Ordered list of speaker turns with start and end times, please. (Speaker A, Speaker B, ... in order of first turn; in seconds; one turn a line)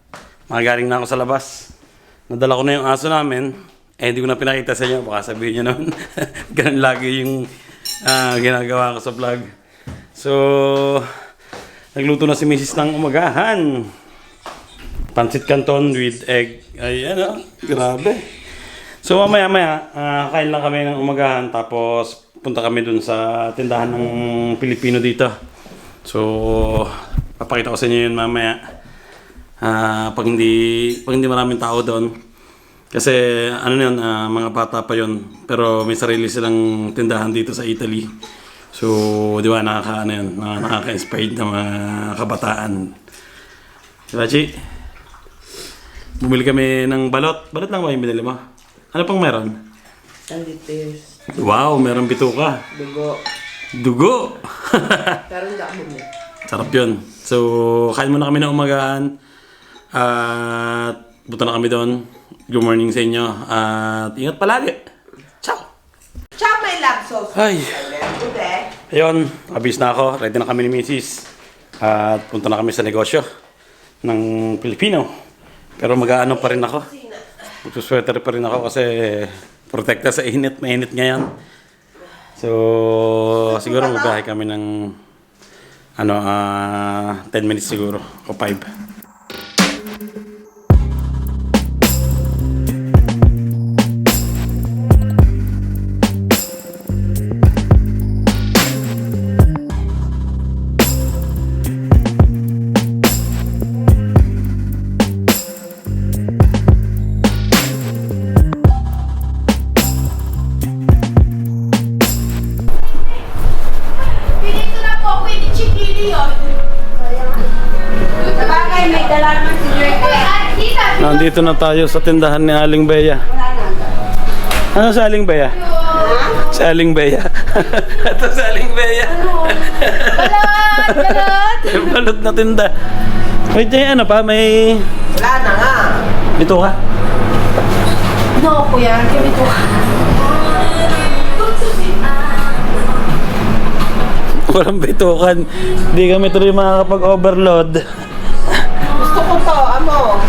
Speaker A: 0.5-1.7
Speaker A: 2.3-7.5
Speaker A: 8.0-9.5
Speaker A: 10.1-11.1
Speaker A: 11.9-13.9
Speaker A: 15.1-18.2
Speaker A: 19.0-25.3
Speaker A: 26.0-28.6
Speaker A: 29.6-32.1
Speaker A: 32.9-38.1
Speaker A: 38.7-42.9
Speaker A: 44.1-44.5
Speaker A: 46.2-48.4
Speaker A: 48.9-49.5
Speaker B: 50.3-51.1
Speaker A: 51.3-52.6
Speaker B: 52.7-53.2
Speaker A: 53.7-55.2
Speaker B: 55.3-56.0
Speaker A: 56.5-59.1
Speaker A: 59.9-64.8
Speaker A: 65.4-65.7
Speaker B: 66.4-68.7
Speaker A: 67.3-67.8
Speaker A: 68.9-71.3
Speaker A: 71.8-73.2
Speaker A: 74.0-75.1
Speaker A: 75.8-76.9
Speaker A: 77.6-81.3
Speaker A: 82.4-84.9
Speaker B: 83.5-84.1
Speaker A: 86.0-88.7
Speaker C: 114.2-116.5
Speaker C: 118.2-119.0
Speaker B: 118.3-120.2
Speaker C: 119.8-121.3
Speaker A: 121.0-123.2
Speaker A: 124.7-125.6
Speaker C: 125.7-126.0
Speaker B: 125.9-126.3
Speaker A: 126.3-132.7
Speaker C: 129.1-131.9
Speaker A: 133.5-134.9
Speaker B: 135.1-136.0
Speaker A: 136.3-136.7
Speaker C: 138.4-139.9
Speaker C: 141.4-142.1
Speaker A: 144.5-147.8
Speaker B: 148.9-150.2